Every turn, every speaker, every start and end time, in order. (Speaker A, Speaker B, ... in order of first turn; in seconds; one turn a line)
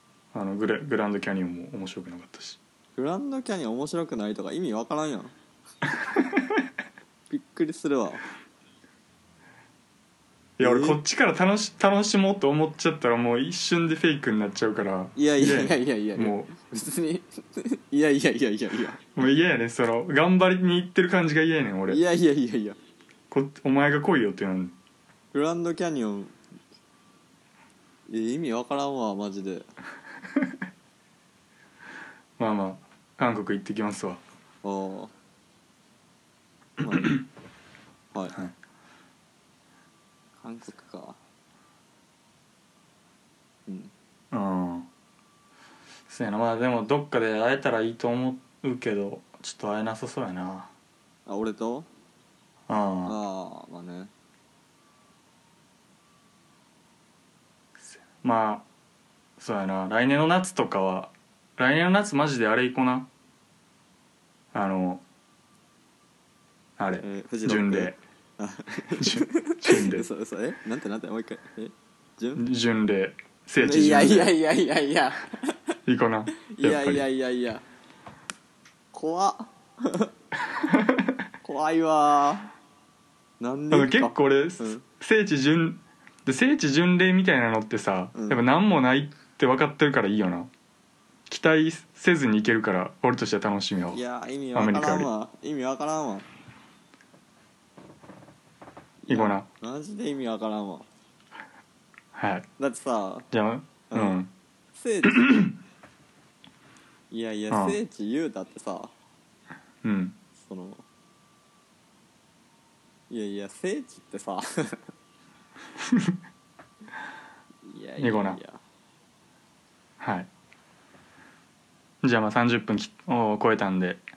Speaker A: 0.3-2.6
Speaker B: 3.0-5.3
Speaker A: 6.1-6.6
Speaker B: 7.3-8.2
Speaker A: 10.6-16.5
Speaker B: 10.6-11.0
Speaker B: 15.1-19.1
Speaker A: 19.1-22.0
Speaker B: 21.9-22.8
Speaker A: 23.3-24.8
Speaker B: 25.3-26.4
Speaker B: 28.1-29.7
Speaker A: 32.4-34.2
Speaker B: 34.6-35.1
Speaker B: 36.8-37.2
Speaker B: 40.4-41.2
Speaker B: 43.7-43.9
Speaker A: 44.3-44.9
Speaker A: 46.1-50.7
Speaker B: 51.2-51.9
Speaker A: 52.7-53.2
Speaker B: 53.0-54.1
Speaker A: 57.9-58.6
Speaker A: 59.4-63.1
Speaker A: 64.5-65.0
Speaker A: 66.8-68.0
Speaker B: 67.0-72.4
Speaker A: 69.0-70.0
Speaker A: 72.4-74.3
Speaker B: 73.6-75.6
Speaker A: 75.8-77.0
Speaker B: 76.5-77.6
Speaker B: 78.9-80.1
Speaker A: 80.5-81.2
Speaker B: 81.4-82.5
Speaker B: 83.4-84.8
Speaker A: 83.7-90.5
Speaker B: 88.1-88.4
Speaker A: 91.3-94.0
Speaker B: 93.9-96.2
Speaker A: 94.5-95.1
Speaker B: 99.0-100.9
Speaker A: 99.1-99.5
Speaker A: 102.1-102.5
Speaker B: 102.6-103.3
Speaker A: 103.3-104.3
Speaker B: 103.9-104.2
Speaker B: 104.7-105.5
Speaker A: 105.0-105.5
Speaker B: 107.1-108.9
Speaker A: 107.5-107.8
Speaker A: 109.8-110.2
Speaker B: 110.3-110.8
Speaker B: 113.1-114.9
Speaker A: 115.8-116.2
Speaker B: 117.6-118.6
Speaker A: 118.0-118.4
Speaker A: 120.0-120.3
Speaker A: 122.0-124.0